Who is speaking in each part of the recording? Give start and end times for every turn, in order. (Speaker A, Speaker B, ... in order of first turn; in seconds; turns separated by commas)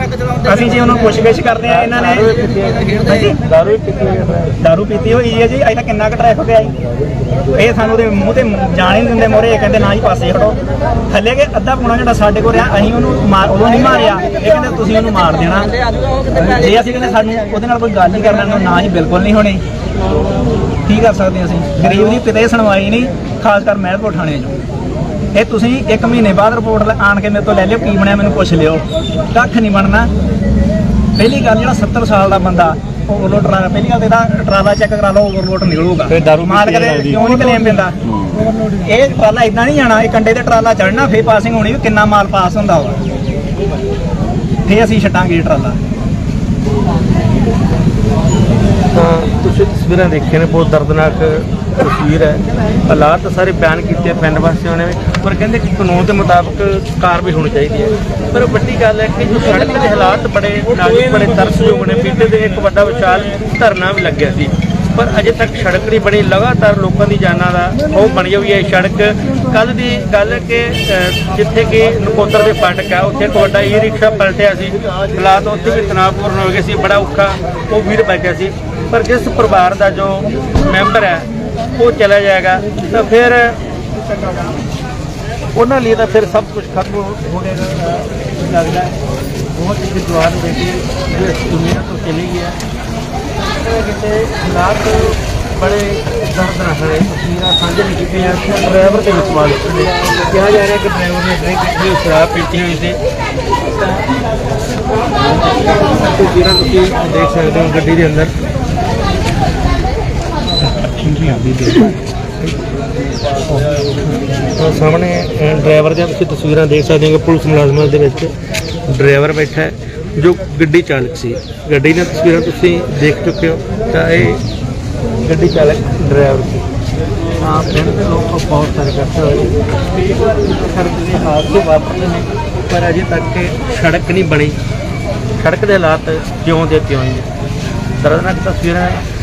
Speaker A: 0.5-2.3, Speaker B: 1.6-4.5, Speaker A: 3.0-3.4, Speaker A: 4.6-6.8, Speaker A: 7.5-10.6, Speaker A: 11.1-15.7, Speaker A: 16.4-19.6, Speaker A: 20.9-24.6, Speaker A: 25.3-30.1, Speaker A: 31.2-38.0, Speaker B: 36.5-37.2, Speaker A: 38.8-43.0, Speaker A: 44.7-45.8, Speaker B: 48.9-83.6, Speaker B: 85.5-89.0, Speaker B: 89.5-92.6, Speaker B: 93.4-103.0, Speaker B: 105.9-108.3, Speaker B: 110.9-112.6, Speaker B: 114.6-118.3, Speaker B: 118.9-124.4, Speaker B: 125.2-126.7, Speaker B: 127.4-134.6, Speaker B: 135.4-137.3, Speaker B: 138.0-139.0